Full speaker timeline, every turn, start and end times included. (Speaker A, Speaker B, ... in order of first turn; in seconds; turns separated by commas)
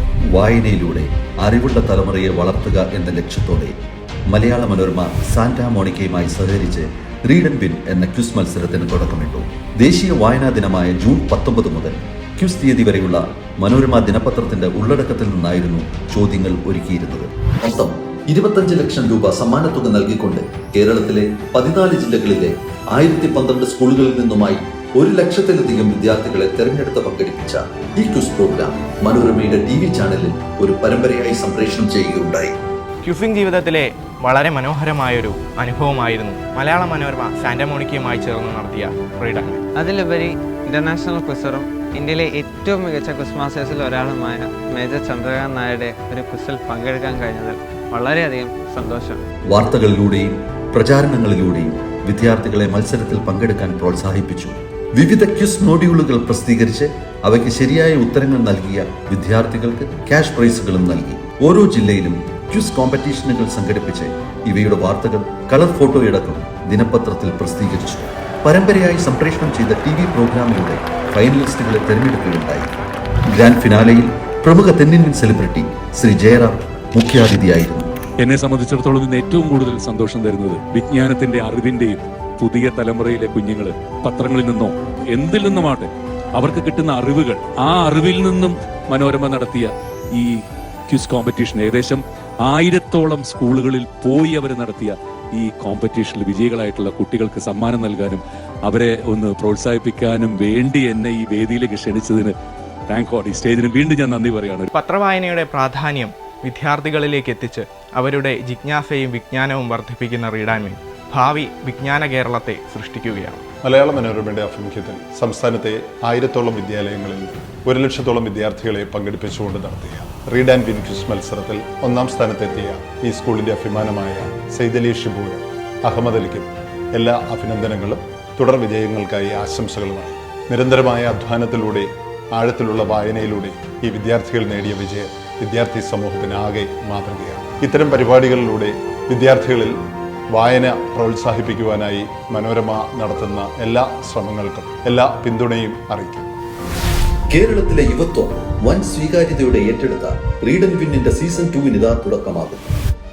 Speaker A: 0.3-3.7, Speaker A: 4.3-32.5, Speaker B: 33.0-39.6, Speaker C: 39.8-49.2, Speaker A: 49.5-72.7, Speaker A: 73.3-77.9, Speaker D: 78.2-90.3, Speaker D: 90.9-102.3, Speaker D: 102.9-104.7, Speaker B: 104.7-113.4, Speaker E: 113.6-139.8, Speaker E: 140.3-146.3, Speaker A: 147.3-152.8